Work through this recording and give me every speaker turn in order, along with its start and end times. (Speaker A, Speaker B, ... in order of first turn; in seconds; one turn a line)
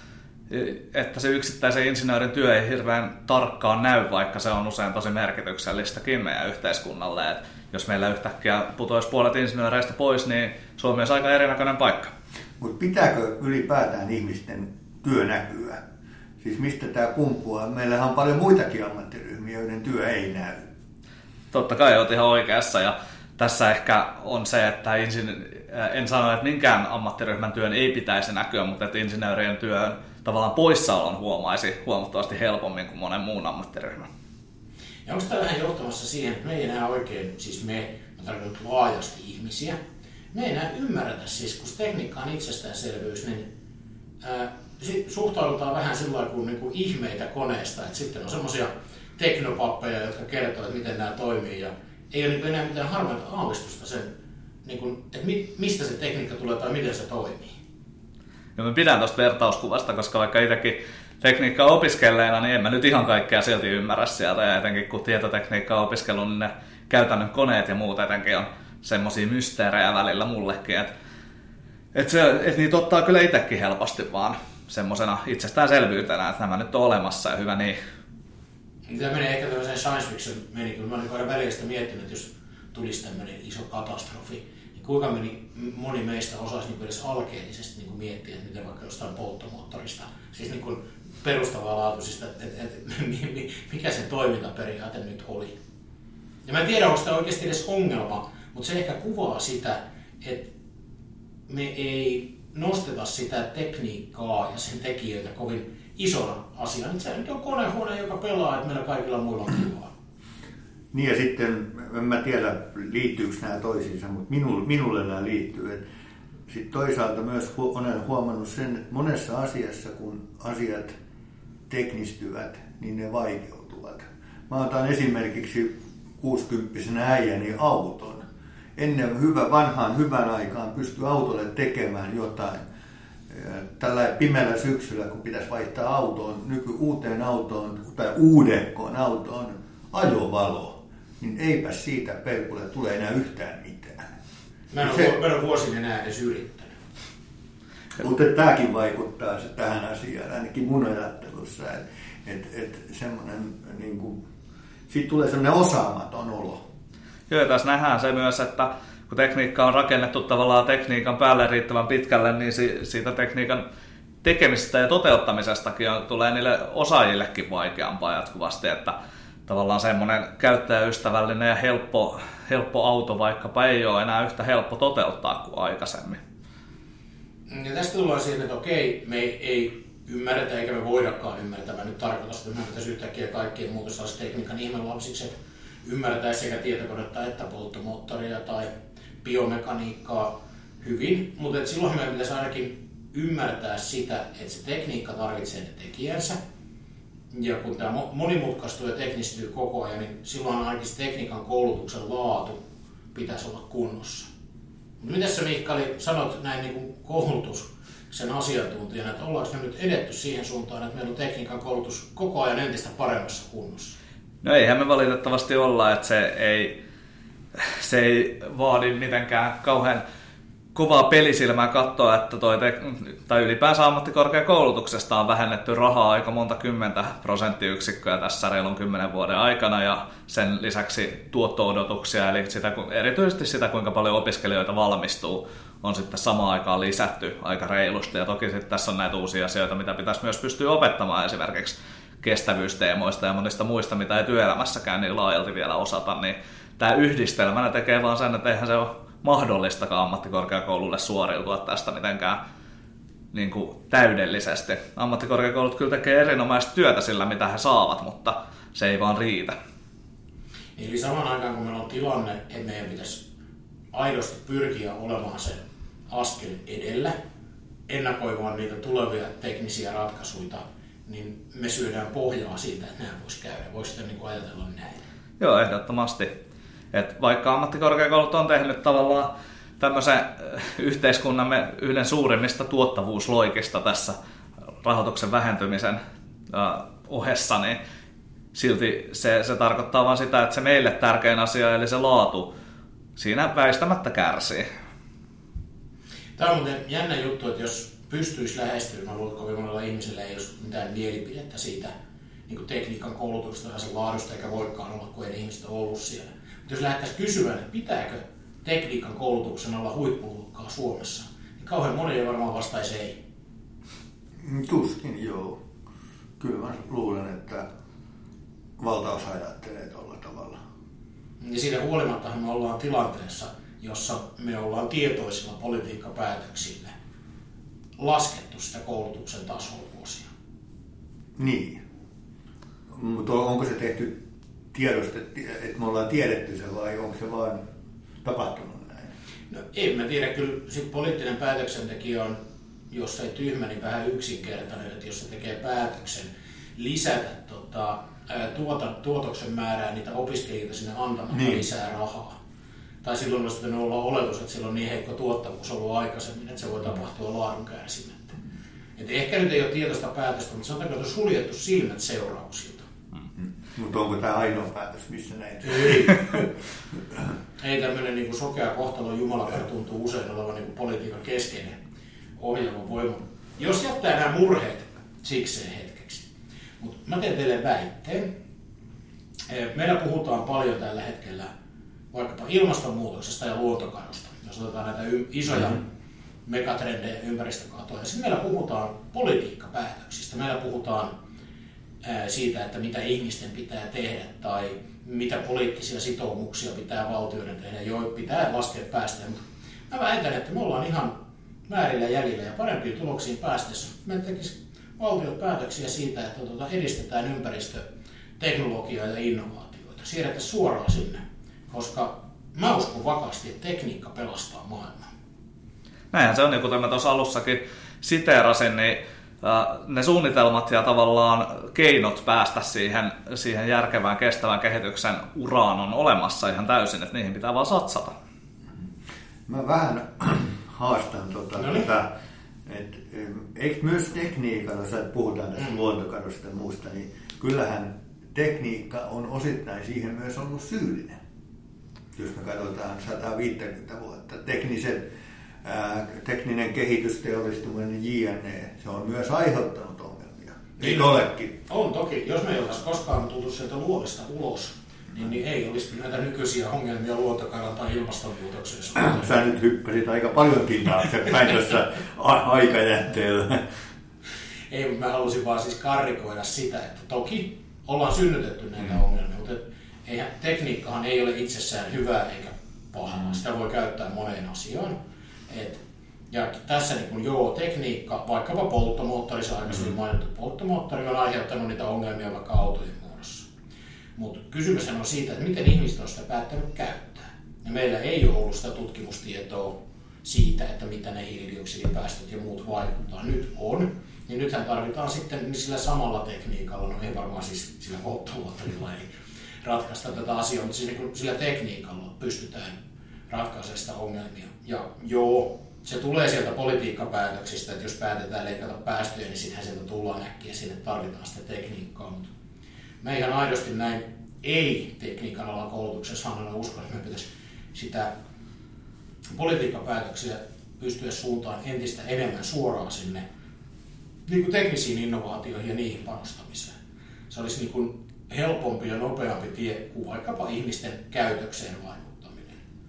Speaker A: 0.5-12.1
Speaker B: 12.6-15.8
Speaker B: 16.4-20.6
Speaker A: 21.5-34.1
Speaker C: 35.1-39.8
Speaker C: 40.3-43.5
Speaker C: 44.2-54.1
Speaker C: 54.6-57.6
Speaker A: 58.6-70.9
Speaker A: 71.9-77.8
Speaker C: 78.9-95.6
Speaker C: 96.5-100.5
Speaker C: 101.5-109.9
Speaker B: 110.9-115.8
Speaker B: 116.5-121.0
Speaker B: 121.7-128.2
Speaker B: 128.8-132.7
Speaker B: 133.3-144.1
Speaker C: 144.7-146.8
Speaker B: 144.8-145.1
Speaker B: 148.0-154.2
Speaker B: 154.9-156.6
Speaker A: 157.3-163.6
Speaker A: 164.2-169.0
Speaker A: 169.5-176.2
Speaker C: 177.5-188.7
Speaker C: 189.2-196.4
Speaker C: 197.3-202.6
Speaker C: 203.1-204.3
Speaker C: 205.0-214.0
Speaker A: 214.4-216.8
Speaker A: 217.6-220.0
Speaker A: 220.8-252.4
Speaker A: 253.3-259.6
Speaker C: 260.8-263.2
Speaker C: 263.9-267.1
Speaker C: 267.9-275.0
Speaker A: 275.4-276.3
Speaker A: 276.9-284.2
Speaker A: 284.8-286.0
Speaker A: 286.5-287.8
Speaker A: 288.5-292.5
Speaker A: 293.2-294.7
Speaker C: 296.4-301.9
Speaker C: 302.5-313.2
Speaker B: 314.4-315.6
Speaker B: 316.4-317.6
Speaker B: 318.8-320.6
Speaker C: 321.4-326.9
Speaker C: 328.0-330.3
Speaker B: 331.4-331.8
Speaker B: 332.9-334.2
Speaker B: 334.7-337.6
Speaker B: 338.2-339.1
Speaker C: 339.5-342.4
Speaker C: 342.9-352.4
Speaker B: 351.3-351.6
Speaker C: 353.0-358.4
Speaker C: 359.0-362.9
Speaker B: 363.4-366.5
Speaker C: 365.8-366.1
Speaker C: 367.6-371.8
Speaker C: 372.4-376.3
Speaker C: 376.8-378.3
Speaker C: 379.5-381.5
Speaker C: 382.1-385.8
Speaker C: 386.4-391.1
Speaker C: 392.0-401.1
Speaker C: 401.7-407.8
Speaker C: 408.4-415.1
Speaker A: 416.1-428.1
Speaker B: 429.5-432.1
Speaker C: 431.6-431.9
Speaker B: 432.7-441.2
Speaker B: 442.1-445.1
Speaker B: 445.6-451.5
Speaker C: 450.8-459.4
Speaker B: 459.0-463.7
Speaker C: 464.7-475.0
Speaker C: 475.5-483.5
Speaker C: 484.2-499.1
Speaker C: 499.6-502.8
Speaker C: 503.3-512.3
Speaker C: 513.0-518.1
Speaker C: 519.3-523.2
Speaker C: 524.3-526.8
Speaker C: 527.3-532.6